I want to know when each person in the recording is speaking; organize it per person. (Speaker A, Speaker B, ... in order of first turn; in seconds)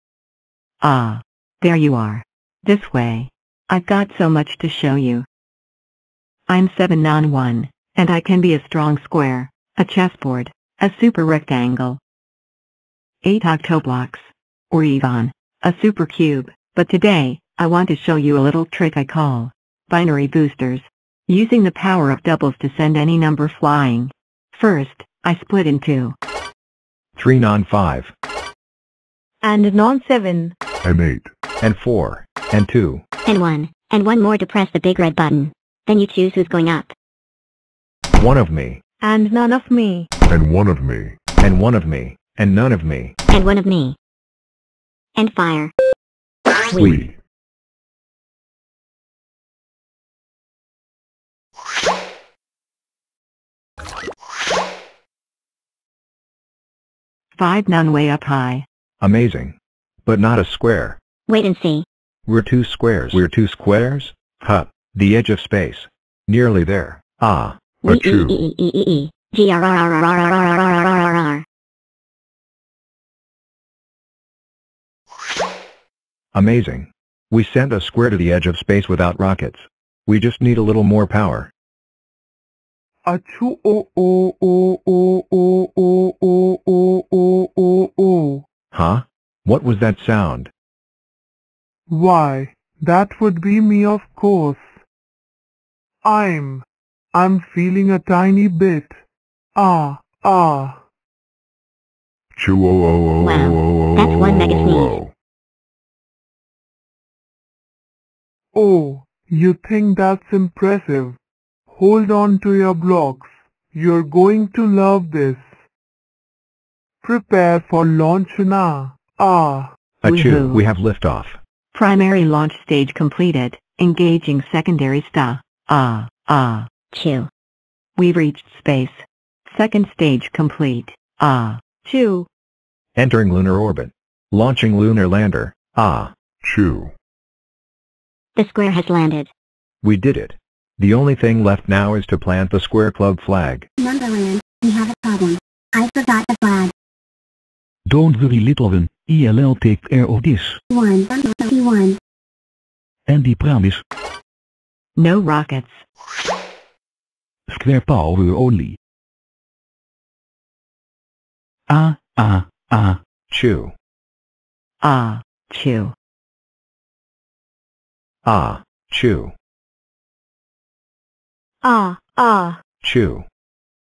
Speaker A: 0.8-5.2, 6.5-12.0, 13.2-26.1, 57.3-58.6, 120.0-120.6, 121.7-126.7, 128.0-131.6, 154.9-155.8, 164.8-165.9
Speaker B: 27.1-28.1, 31.6-33.0, 38.2-38.8, 41.4-43.1, 59.0-61.0, 62.3-67.6, 76.3-81.5, 88.7-90.5, 120.0-121.4, 132.9-136.1, 139.8-143.7, 163.3-163.7, 168.2-169.3, 172.8-173.2
Speaker C: 29.4-30.5, 39.0-40.1, 131.8-132.3, 171.6-172.6
Speaker D: 30.8-31.3, 40.3-41.2, 46.8-47.2, 67.8-68.4, 102.3-105.1, 136.4-136.9
Speaker E: 33.2-36.9, 43.3-44.0, 45.1-45.7, 46.7-47.0, 61.3-61.8, 67.8-71.4, 103.2-105.0, 126.9-127.3, 138.3-139.3
Speaker F: 83.0-88.4, 91.9-94.8, 96.0-99.0, 99.5-100.8, 108.5-111.2, 111.7-115.6, 117.0-119.7
Speaker G: 143.8-146.7, 150.7-152.0
Speaker H: 147.9-150.6, 153.1-153.8, 157.5-158.8, 161.7-163.0